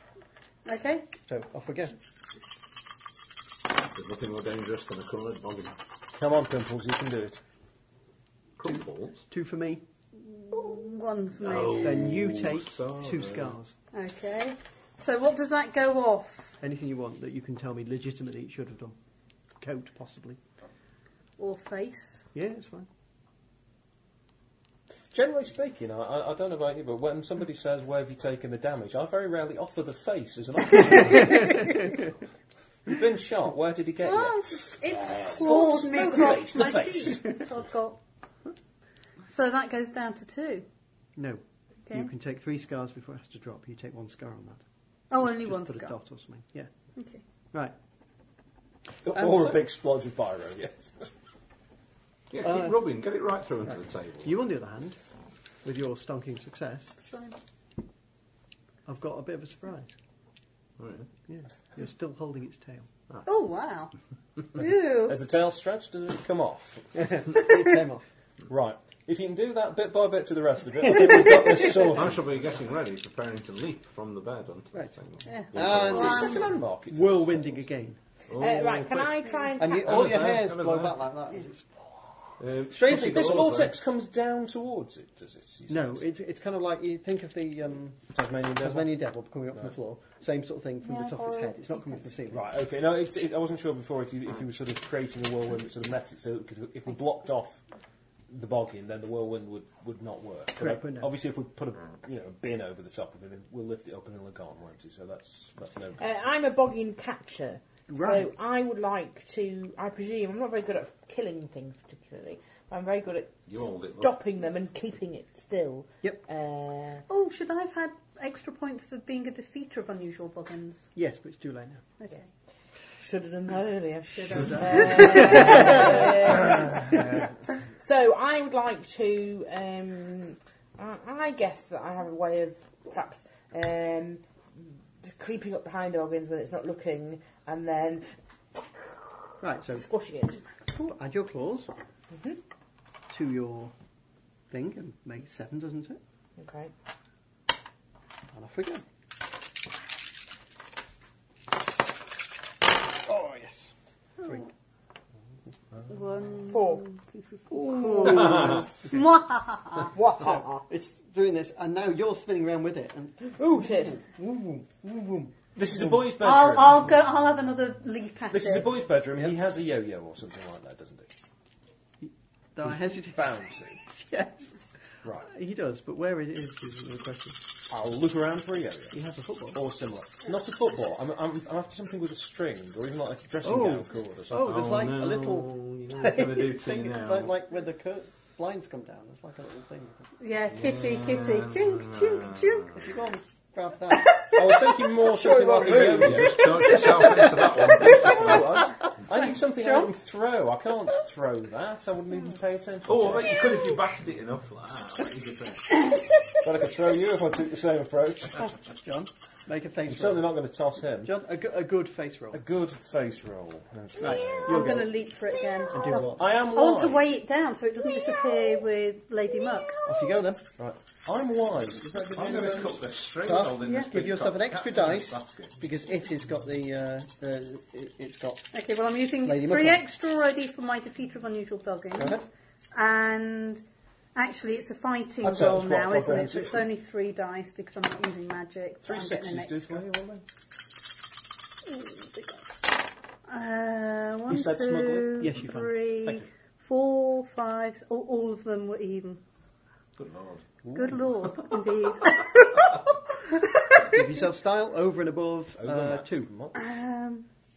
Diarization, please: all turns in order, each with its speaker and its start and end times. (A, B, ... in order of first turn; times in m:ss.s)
0:00.6-0:01.1 A
0:01.3-0:01.9 B
0:03.9-0:05.8 C
0:06.1-0:07.4 D
0:08.6-0:09.2 C
0:08.6-0:09.8 B
0:10.4-0:12.0 A
0:11.4-0:13.6 C
0:11.8-0:13.7 B
0:13.9-0:16.5 A
0:16.6-0:19.0 B
0:19.6-0:20.4 B
0:21.4-0:22.2 A
0:22.3-0:22.9 B
0:25.1-0:31.7 D
0:32.8-0:37.4 D
0:34.0-0:38.0 A
0:39.3-0:40.6 A
0:41.2-0:44.6 B
0:45.1-0:46.0 A
0:45.2-0:46.7 B
0:47.0-0:47.2 A
0:49.0-0:51.1 D
0:49.1-0:49.6 B
0:52.3-0:54.3 C
0:52.4-0:52.8 B
0:53.7-0:55.0 B
0:55.6-0:57.0 B
0:57.0-0:57.4 A
0:58.8-0:59.9 B
1:00.8-1:01.1 C
1:01.3-1:02.9 B
1:03.2-1:03.9 A
1:04.6-1:05.2 A
1:04.6-1:07.2 D
1:06.9-1:08.1 B
1:08.5-1:12.3 D
1:11.8-1:16.4 C
1:15.3-1:16.4 A
1:15.5-1:18.0 B
1:15.5-1:17.7 D
1:18.3-1:21.1 C
1:18.4-1:20.0 E
1:19.6-1:23.2 B
1:22.4-1:23.8 C
1:22.8-1:26.0 D
1:25.7-1:32.4 B
1:28.1-1:29.0 D
1:30.8-1:32.0 A
1:32.3-1:37.6 D
1:38.3-1:46.1 D
1:40.6-1:41.1 B
1:46.0-1:57.0 E
1:47.9-1:48.3 B
1:53.5-1:54.2 C
1:57.1-2:00.9 A
2:00.9-2:01.8 B
2:02.0-2:02.3 A
2:03.0-2:07.0 E
2:04.2-2:06.4 A
2:04.3-2:06.0 B
2:06.4-2:07.3 D
2:07.8-2:14.2 E
2:15.0-2:18.1 E
2:19.4-2:19.9 B
2:19.8-2:20.4 E
2:20.7-2:21.7 B
2:22.1-2:22.4 E
2:23.1-2:23.7 B
2:24.5-2:26.0 B
2:26.4-2:26.7 E
2:28.3-2:28.8 B
2:33.0-2:33.7 B
2:34.2-2:34.5 B
2:35.9-2:39.9 A
2:36.5-2:36.8 E
2:37.5-2:39.0 B
2:39.9-2:40.6 E
2:40.0-2:46.0 B
2:43.4-2:44.0 E
2:45.5-2:46.9 D
2:46.1-2:48.7 A
2:48.3-2:51.1 D
2:52.0-2:53.3 B
2:52.6-2:53.8 D
2:53.8-2:54.5 B
2:55.0-2:55.3 D
2:55.2-2:57.4 B
2:57.7-2:59.0 D
2:58.9-2:59.6 B
2:59.5-3:04.5 D
3:03.4-3:10.1 B
3:04.3-3:07.3 C
3:10.2-3:12.8 A
3:10.5-3:12.8 C
3:12.8-3:14.2 B
3:14.0-3:14.6 A
3:14.3-3:16.8 D
3:15.1-3:17.9 B
3:15.6-3:18.6 C
3:17.8-3:23.5 D
3:19.1-3:19.9 A
3:22.8-3:25.9 C
3:26.4-3:28.5 D
3:28.8-3:30.4 B
3:29.9-3:31.1 D
3:31.0-3:32.4 B
3:32.3-3:34.8 D
3:34.0-3:35.0 B
3:34.0-3:39.9 A
3:35.7-3:36.3 B
3:36.1-3:37.1 D
3:39.8-3:40.4 B
3:40.6-3:42.8 D
3:42.0-3:45.6 C
3:43.2-3:48.5 B
3:48.5-3:52.2 A
3:49.2-3:49.8 B
3:52.0-3:52.2 B
3:52.7-3:53.6 A
3:54.1-3:59.8 A
3:55.2-3:56.7 D
3:58.8-4:00.2 D
4:01.6-4:02.5 A
4:03.2-4:09.2 A
4:04.3-4:05.4 D
4:05.2-4:05.7 B
4:06.0-4:06.3 D
4:10.0-4:10.6 C
4:10.7-4:11.0 D
4:10.7-4:14.0 A
4:13.9-4:16.3 B
4:15.6-4:16.7 D
4:16.6-4:17.3 A